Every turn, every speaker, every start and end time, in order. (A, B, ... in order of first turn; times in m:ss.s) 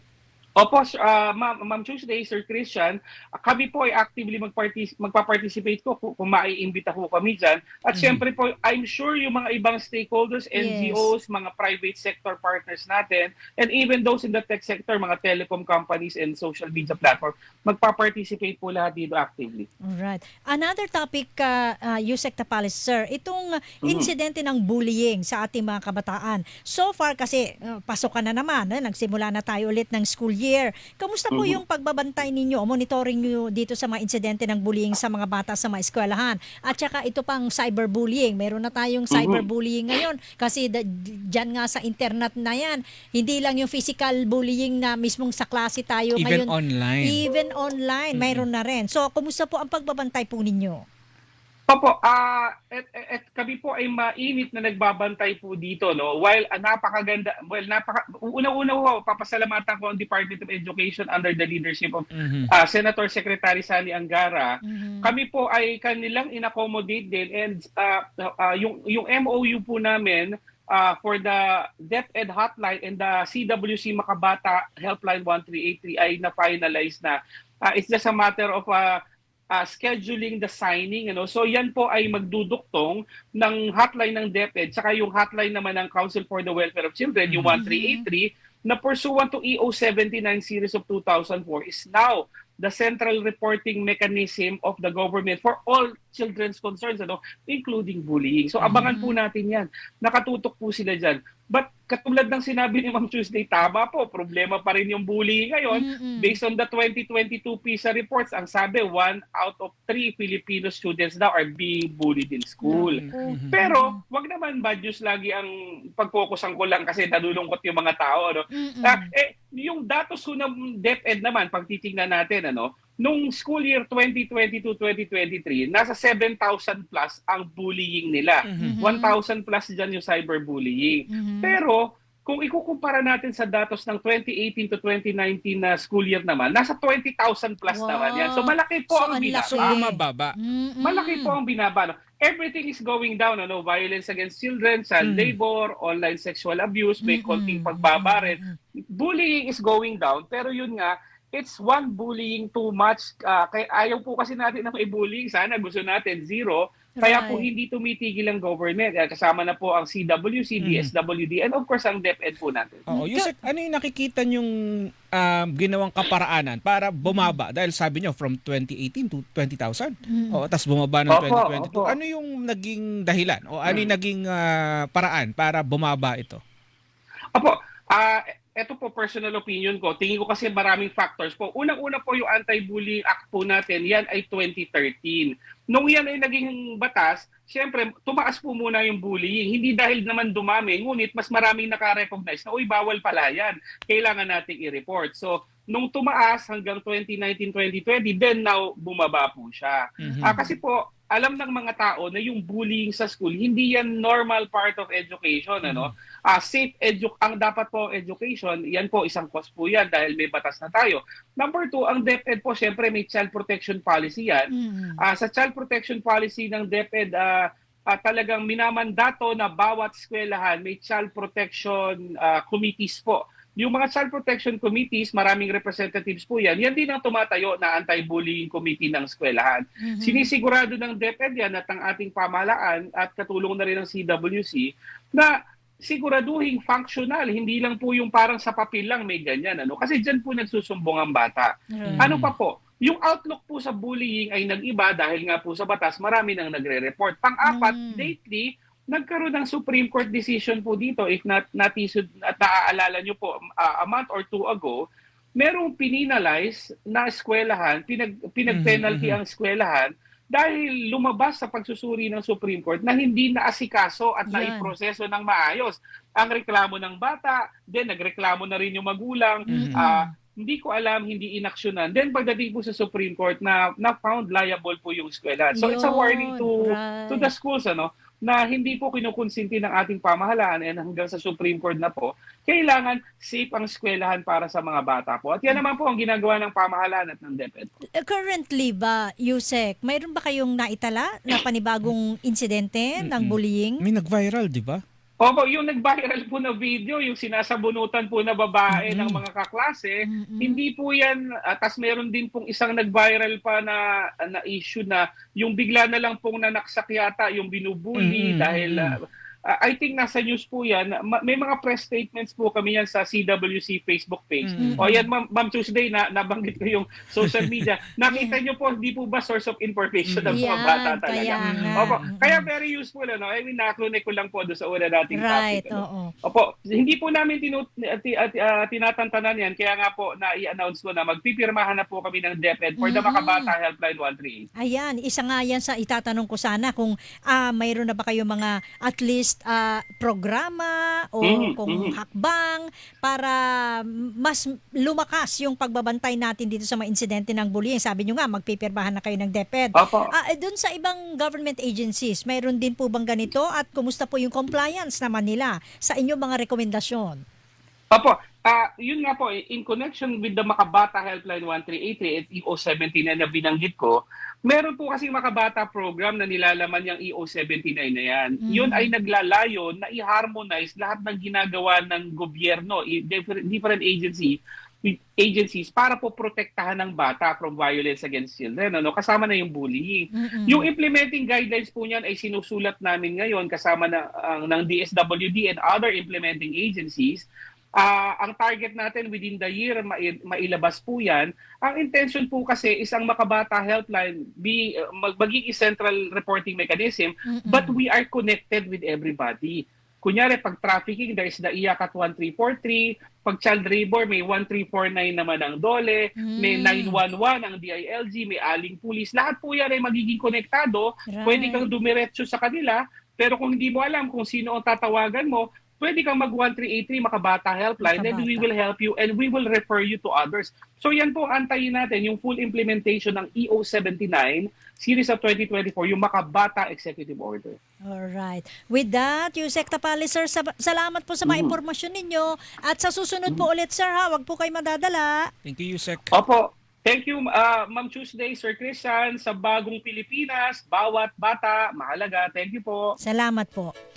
0:00.6-0:19.7 A
0:07.9-0:08.2 B
0:10.6-0:11.1 C
0:19.9-0:46.5 C
0:23.8-0:24.1 A
0:31.3-0:31.6 A
0:39.1-0:39.4 A
0:46.2-0:47.2 B
0:47.0-0:50.8 C
0:48.1-0:48.4 B
0:51.7-1:19.0 A
1:02.1-1:02.5 B
1:04.6-1:05.1 C
1:19.5-2:19.8 A
1:27.3-1:27.6 B
1:27.6-1:28.0 C
1:38.6-1:38.9 B
1:38.7-1:39.2 C
1:45.7-1:46.4 C
1:52.6-1:54.0 C
1:52.7-1:53.5 B
1:58.5-1:59.1 C
2:08.5-2:08.8 B
2:08.6-2:09.2 C
2:11.1-2:11.6 C
2:17.7-2:21.4 C
2:19.5-2:20.4 B
2:20.8-2:28.4 A
2:25.0-2:25.4 B
2:27.0-2:28.6 C
2:28.9-2:42.8 A
2:37.0-2:37.5 C
2:40.6-2:40.9 B
2:42.9-2:44.5 B
2:42.9-2:43.3 C
2:45.1-2:56.4 B
2:47.0-2:47.4 C
2:50.1-2:50.4 C
2:51.1-2:52.0 A
2:57.4-3:34.5 A
3:20.0-3:20.4 B
3:20.0-3:20.5 C
3:25.6-3:25.9 B
3:34.5-3:35.0 C
3:35.0-3:55.3 A
3:49.8-3:50.3 C
3:55.8-4:14.8 A
4:01.7-4:02.1 C
4:01.9-4:02.3 B
4:07.4-4:08.1 C
4:15.4-4:47.7 A
4:18.5-4:19.2 B
4:24.3-4:24.7 C
4:29.5-4:30.1 C
4:29.5-4:29.8 B
4:35.6-4:37.3 C
4:48.0-4:53.8 C
4:53.0-4:54.8 B
4:55.2-5:34.5 A
4:58.7-4:59.2 B
5:00.1-5:00.6 C
5:08.0-5:09.0 B
5:14.4-5:14.9 B
5:14.6-5:15.0 C
5:17.3-5:17.6 B
5:18.1-5:18.4 C
5:20.1-5:20.4 B
5:20.3-5:22.4 C
5:21.4-5:22.1 B
5:25.1-5:26.1 C
5:32.8-5:33.5 C
5:34.6-5:57.2 C
5:41.2-5:42.0 A
5:49.8-5:50.1 A
5:57.9-6:27.3 A
6:08.4-6:08.9 C
6:20.1-6:20.7 C
6:27.8-7:07.6 A
6:37.3-6:37.8 C
6:46.2-6:47.0 C
6:51.1-6:51.6 C
6:57.8-6:58.5 C
7:07.9-7:15.3 C
7:11.3-7:11.6 A
7:15.4-7:16.1 B
7:16.1-7:22.9 A
7:23.0-7:23.7 C